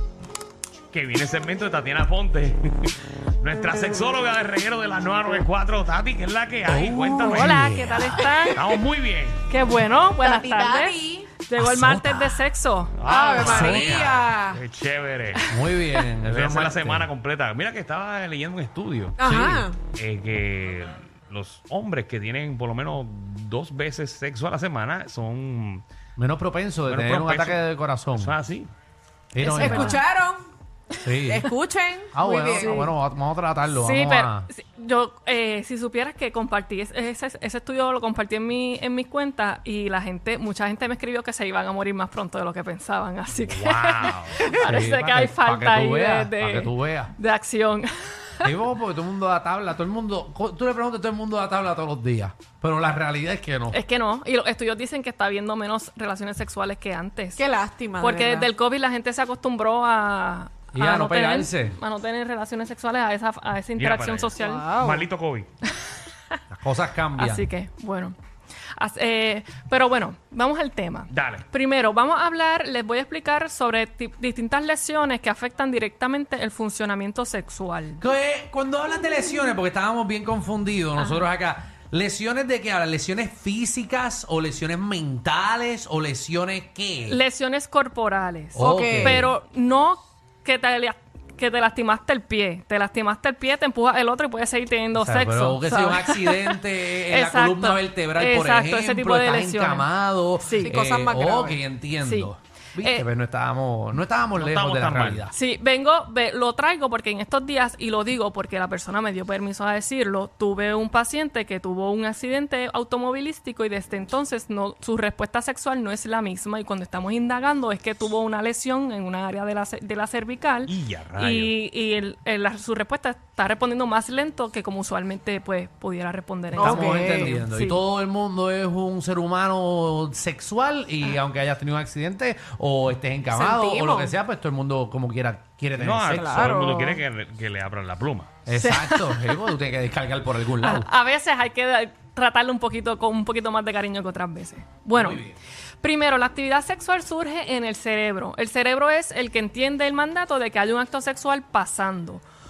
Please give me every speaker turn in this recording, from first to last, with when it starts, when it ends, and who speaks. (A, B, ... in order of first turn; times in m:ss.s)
0:00.9-0:07.7 A
0:06.7-0:08.4 B
0:07.2-0:08.6 C
0:08.5-0:09.4 A
0:09.5-0:12.9 C
0:10.3-0:11.3 D
0:11.6-0:12.5 B
0:13.0-0:15.5 A
0:13.1-0:14.6 D
0:13.4-0:14.2 B
0:15.5-0:17.1 B
0:16.2-0:19.2 A
0:19.2-0:19.8 D
0:19.2-0:19.7 B
0:19.9-0:25.8 A
0:26.2-0:28.3 B
0:26.9-0:27.6 A
0:28.2-0:28.7 A
0:29.3-0:30.0 B
0:29.4-0:30.0 C
0:29.5-0:30.5 D
0:31.0-0:31.5 B
0:31.2-0:32.7 D
0:32.1-0:34.5 B
0:32.6-0:32.9 C
0:33.7-0:48.5 C
0:43.4-0:47.2 B
0:44.0-0:44.3 A
0:48.4-0:53.8 B
0:53.7-0:57.4 C
0:57.4-0:58.5 D
0:58.0-1:04.7 C
1:00.7-1:01.8 B
1:03.8-1:05.5 A
1:04.5-1:05.0 D
1:06.5-1:07.5 B
1:07.2-1:08.2 C
1:08.8-1:18.0 C
1:11.1-1:11.4 A
1:18.0-1:27.2 B
1:21.0-1:21.2 C
1:27.1-1:36.5 C
1:28.6-1:29.3 B
1:28.7-1:29.0 D
1:35.0-1:45.3 B
1:37.1-1:40.8 C
1:40.7-1:41.6 D
1:42.0-1:43.1 C
1:44.4-1:45.3 A
1:45.3-2:07.5 C
2:00.7-2:01.5 A
2:06.6-2:16.5 B
2:06.6-2:07.4 D
2:13.3-2:14.0 D
2:15.8-2:18.3 A
2:16.1-2:17.0 D
2:18.5-2:20.9 B
2:18.6-2:19.4 C
2:20.6-2:25.2 C
2:24.9-2:25.4 B
2:25.8-2:32.2 C